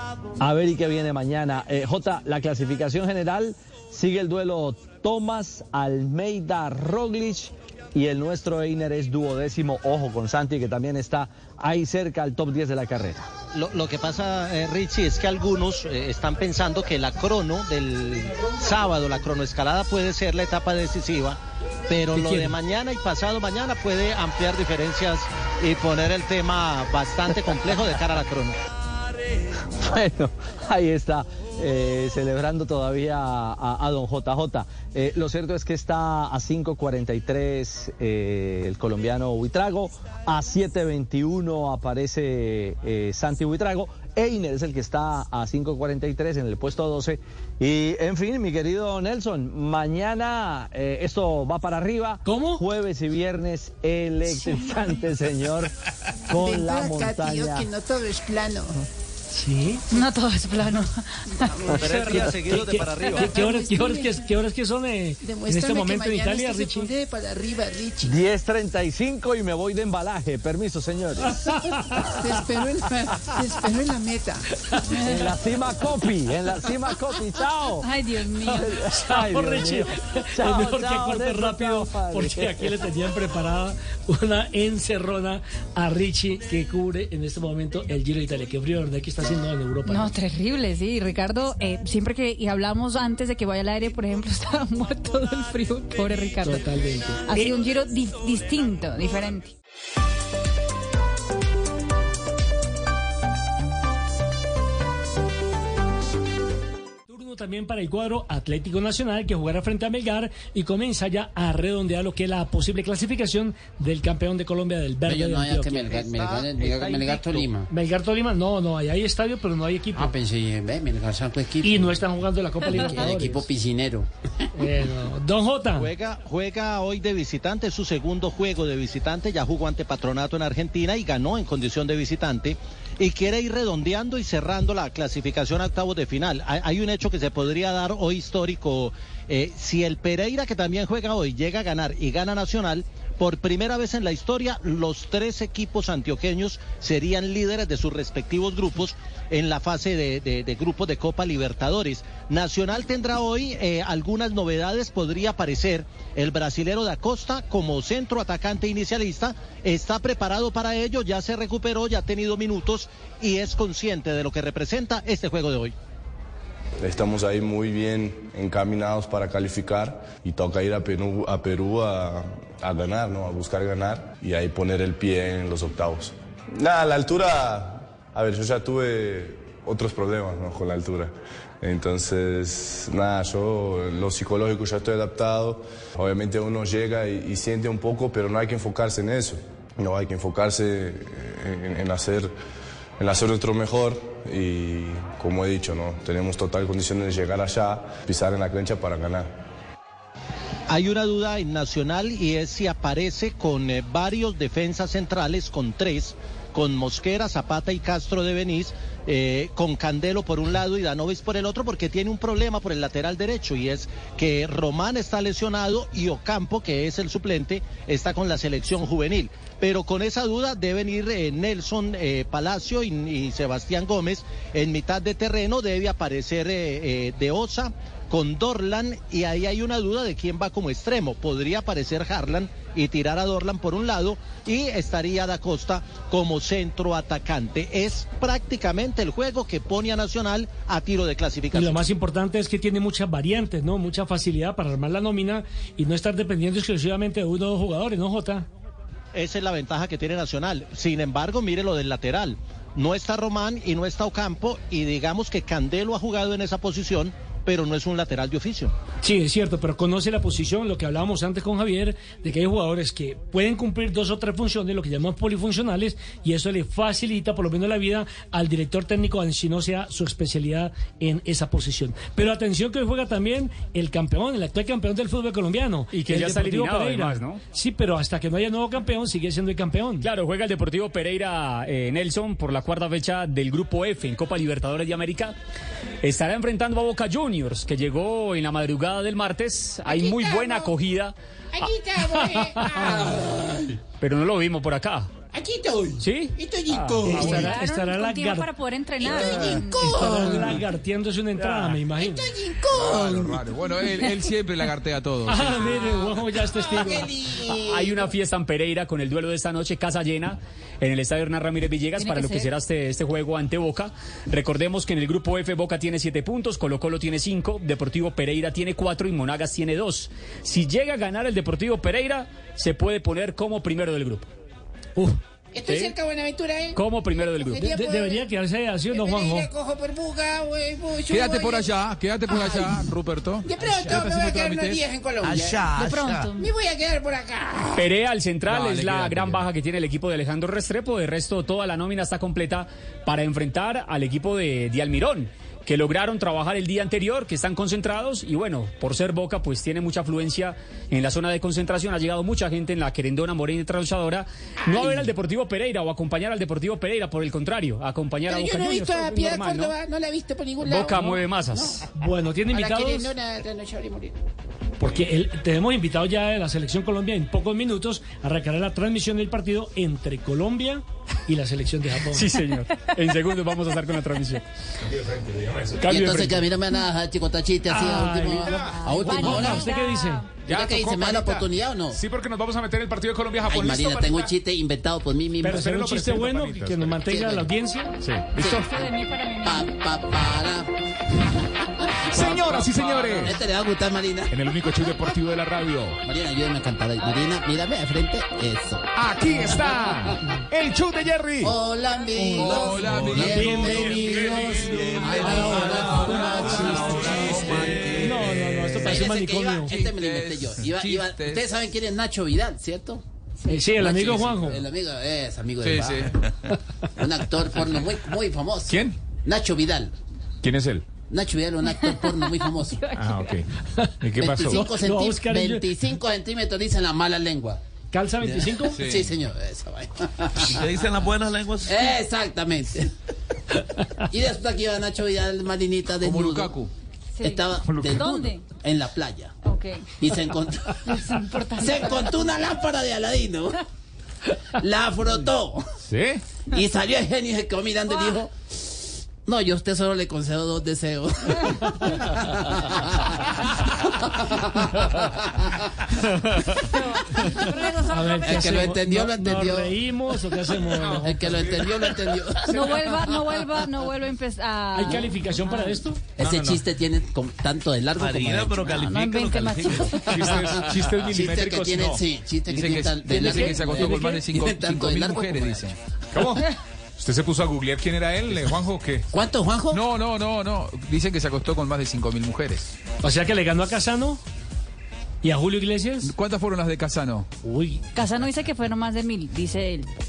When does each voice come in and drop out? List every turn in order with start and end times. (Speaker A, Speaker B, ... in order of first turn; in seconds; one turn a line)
Speaker A: 0.4-13.3
Speaker B: 13.5-28.6
Speaker C: 22.1-22.5
Speaker A: 29.8-55.7
Speaker C: 52.2-52.6
Speaker D: 54.3-54.6
Speaker A: 56.3-57.7
Speaker D: 56.3-58.7
Speaker C: 59.3-59.9
Speaker E: 59.9-61.8
Speaker D: 61.6-62.3
Speaker B: 61.8-63.3
Speaker C: 62.0-66.9
Speaker D: 63.1-64.3
Speaker D: 65.2-68.1
Speaker F: 67.0-68.1
Speaker A: 68.0-71.3
Speaker D: 71.9-74.3
Speaker F: 72.2-72.7
Speaker F: 73.3-74.3
Speaker E: 74.9-75.3
Speaker A: 75.0-77.8
Speaker E: 77.8-78.7
Speaker A: 78.6-82.7
Speaker C: 78.6-90.1
Speaker E: 89.9-96.7
Speaker C: 96.4-97.4
Speaker E: 97.2-99.5
Speaker C: 107.1-116.1
Speaker F: 115.0-117.7
Speaker B: 116.6-117.3
Speaker C: 117.7-120.2
Speaker F: 119.9-122.0
Speaker C: 121.6-123.5
Speaker F: 122.7-124.1
Speaker C: 124.6-125.9
Speaker B: 125.7-165.7
Speaker G: 166.8-192.3
Speaker G: 193.0-199.3
Speaker B: 200.7-241.9
Speaker C: 241.5-248.5
Speaker B: 249.1-258.7
Speaker C: 259.0-280.1
Speaker H: 275.9-277.4
Speaker H: 280.0-285.4
Speaker H: 286.0-293.0
Speaker D: 289.9-290.7
Speaker D: 291.5-293.8
Speaker H: 294.0-295.1
Speaker D: 295.3-297.6
Speaker H: 296.0-297.5
Speaker C: 297.1-298.5
Speaker E: 297.3-300.0
Speaker D: 299.0-300.6
Speaker C: 299.8-302.3
Speaker D: 301.4-303.4
Speaker I: 302.7-305.8
Speaker C: 305.3-307.1
Speaker D: 305.5-308.1
Speaker H: 307.6-324.3
Speaker E: 312.0-312.5
Speaker D: 325.5-328.3
Speaker H: 325.6-325.9
Speaker H: 326.7-327.6
Speaker C: 327.6-329.5
Speaker D: 328.9-332.9
Speaker I: 331.1-334.9
Speaker D: 333.4-335.7
Speaker J: 335.2-336.3
Speaker E: 335.7-336.5
Speaker D: 336.4-337.9
Speaker H: 337.7-359.7
Speaker I: 338.4-339.4
Speaker D: 354.7-355.1
Speaker D: 358.3-361.9
Speaker H: 360.6-361.8
Speaker C: 362.0-363.1
Speaker D: 362.5-364.1
Speaker C: 364.8-372.3
Speaker H: 372.1-374.4
Speaker K: 374.8-376.5
Speaker F: 375.8-379.7
Speaker C: 377.7-378.6
Speaker E: 377.9-380.4
Speaker K: 378.3-378.8
Speaker C: 379.1-380.2
Speaker K: 380.4-384.3
Speaker F: 380.4-382.0
Speaker F: 383.5-385.8
Speaker C: 385.4-387.9
Speaker K: 385.4-387.1
Speaker F: 387.1-387.5
Speaker F: 388.4-388.7
Speaker E: 388.4-389.9
Speaker F: 389.4-390.7
Speaker K: 392.1-393.4
Speaker F: 392.1-394.3
Speaker K: 394.3-396.0
Speaker F: 396.0-398.9
Speaker E: 397.0-397.4
Speaker K: 398.9-401.6
Speaker F: 399.4-399.9
Speaker F: 401.4-413.0
Speaker I: 402.4-404.2
Speaker K: 402.6-405.1
Speaker C: 403.4-403.7
Speaker C: 404.5-407.1
Speaker I: 405.0-409.1
Speaker C: 408.0-409.8
Speaker I: 409.7-411.5
Speaker C: 413.5-414.6
Speaker F: 413.8-416.1
Speaker I: 415.6-416.1
Speaker F: 417.0-419.9
Speaker K: 418.7-418.9
Speaker K: 420.4-420.8
Speaker F: 421.1-422.8
Speaker E: 421.6-423.4
Speaker K: 422.9-423.4
Speaker K: 424.0-424.7
Speaker F: 424.1-427.6
Speaker C: 424.6-425.7
Speaker C: 427.9-428.8
Speaker F: 428.2-430.6
Speaker I: 428.7-429.1
Speaker J: 430.4-431.9
Speaker F: 431.7-432.9
Speaker F: 434.1-436.6
Speaker I: 436.0-436.7
Speaker E: 437.2-438.4
Speaker F: 437.2-439.3
Speaker K: 437.6-438.1
Speaker E: 439.4-440.3
Speaker F: 440.0-440.8
Speaker E: 440.8-442.3
Speaker F: 441.6-443.5
Speaker D: 441.6-442.7
Speaker F: 444.6-445.6
Speaker K: 445.9-446.2
Speaker F: 446.5-448.3
Speaker E: 447.9-448.2
Speaker F: 449.2-451.6
Speaker E: 456.6-458.9
Speaker C: 457.9-461.4
Speaker F: 458.2-459.8
Speaker K: 460.7-463.0
Speaker F: 461.0-462.6
Speaker E: 462.4-465.8
Speaker C: 464.7-466.1
Speaker K: 466.2-466.6
Speaker F: 466.2-468.7
Speaker J: 468.0-469.9
Speaker E: 468.7-470.2
Speaker K: 470.1-471.9
Speaker F: 470.2-470.5
Speaker I: 470.6-475.8
Speaker F: 471.0-475.7
Speaker E: 473.2-474.2
Speaker K: 476.1-476.4
Speaker K: 477.0-479.0
Speaker F: 479.1-479.8
Speaker I: 479.7-482.7
Speaker C: 483.0-484.2
Speaker C: 485.2-486.1
Speaker I: 486.0-487.3
Speaker C: 487.4-487.8
Speaker E: 487.9-489.9